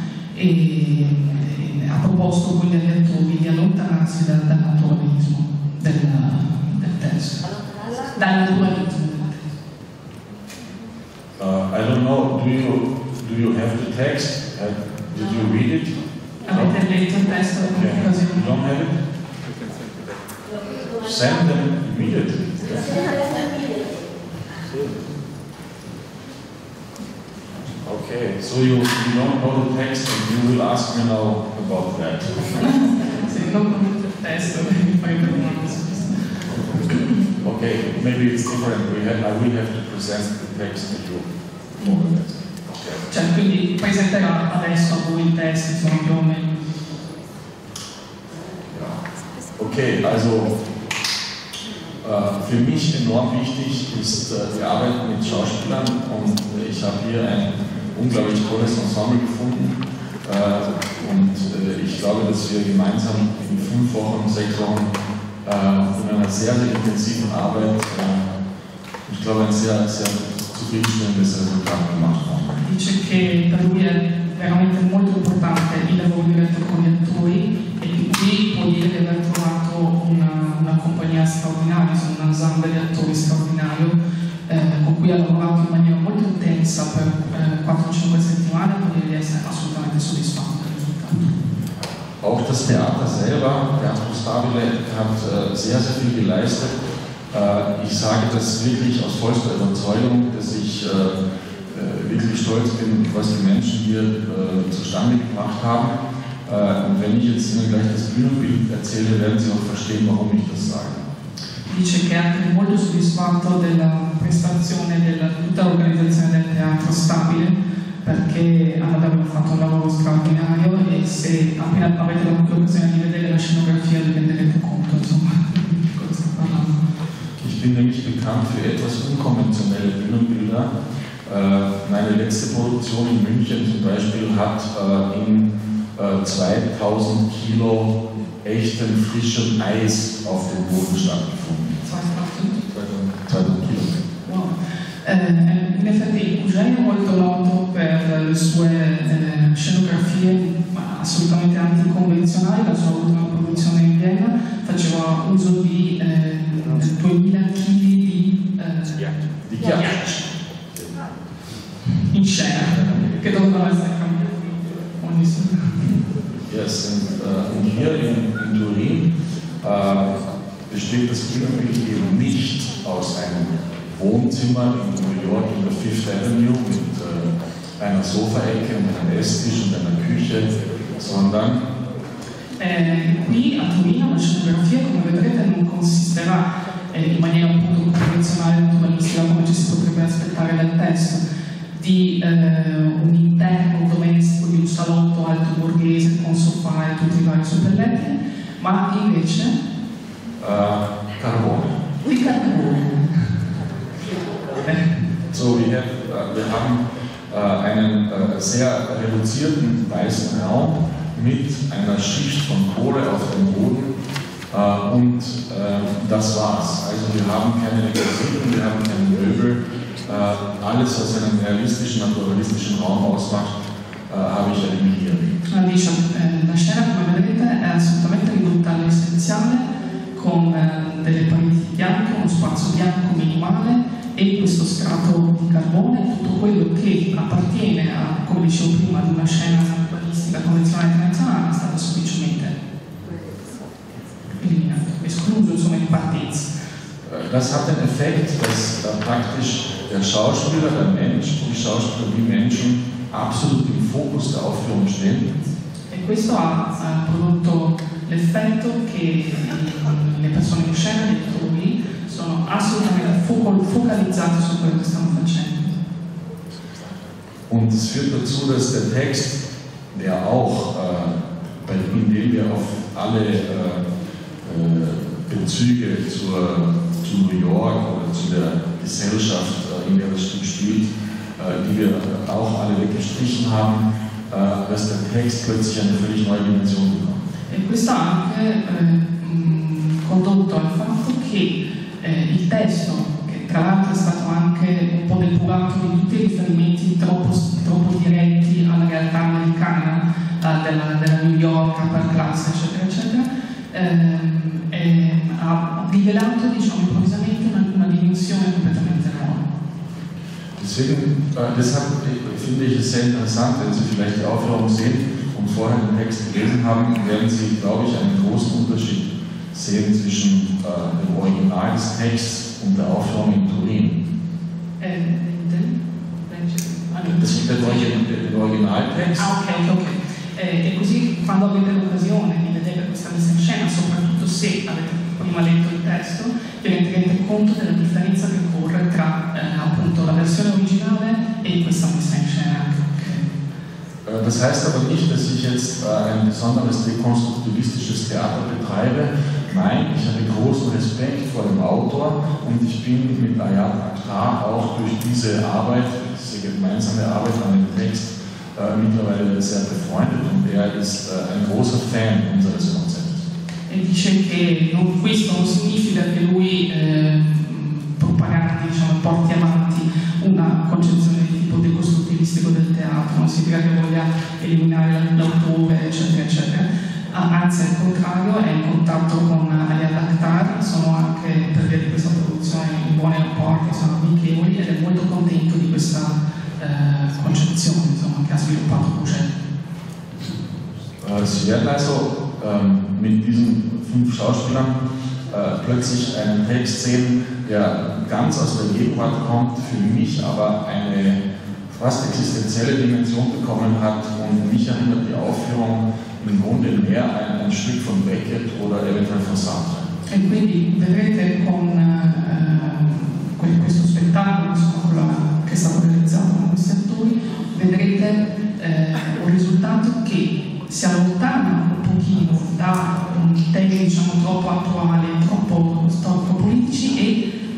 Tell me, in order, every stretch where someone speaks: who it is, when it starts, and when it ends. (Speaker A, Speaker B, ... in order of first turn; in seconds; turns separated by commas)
Speaker A: 0.3-9.5, Speaker B: 11.4-16.8, Speaker A: 16.5-18.6, Speaker B: 17.7-18.9, Speaker B: 20.9-23.4, Speaker B: 24.6-25.1, Speaker B: 27.8-32.5, Speaker A: 32.7-36.3, Speaker B: 37.4-43.0, Speaker A: 43.1-46.6, Speaker B: 48.7-49.0, Speaker B: 49.6-50.6, Speaker B: 52.0-64.9, Speaker B: 65.4-68.4, Speaker B: 69.1-72.6, Speaker A: 72.6-84.0, Speaker A: 84.5-91.3, Speaker B: 92.2-96.8, Speaker B: 97.3-111.0, Speaker A: 111.7-126.8, Speaker B: 127.4-130.7, Speaker B: 131.2-141.8, Speaker A: 141.8-142.6, Speaker B: 142.7-144.0, Speaker A: 144.2-160.0, Speaker B: 159.4-161.0, Speaker A: 162.0-166.0, Speaker B: 162.6-163.2, Speaker B: 166.5-169.1, Speaker B: 169.6-181.7, Speaker A: 182.6-191.2, Speaker A: 191.8-199.6, Speaker B: 200.4-201.8, Speaker A: 202.0-203.4, Speaker A: 204.5-205.0, Speaker B: 205.3-213.9, Speaker B: 214.5-223.6, Speaker B: 224.1-225.4, Speaker A: 225.5-242.5, Speaker A: 244.4-246.5, Speaker B: 247.0-255.3, Speaker A: 255.9-265.8, Speaker B: 267.5-273.9, Speaker B: 274.4-287.2, Speaker A: 287.5-309.4, Speaker B: 310.6-324.0, Speaker A: 324.8-328.0, Speaker B: 327.0-329.3, Speaker A: 329.2-343.3, Speaker B: 344.0-363.2, Speaker A: 363.7-389.3, Speaker B: 391.0-409.9, Speaker A: 410.1-427.2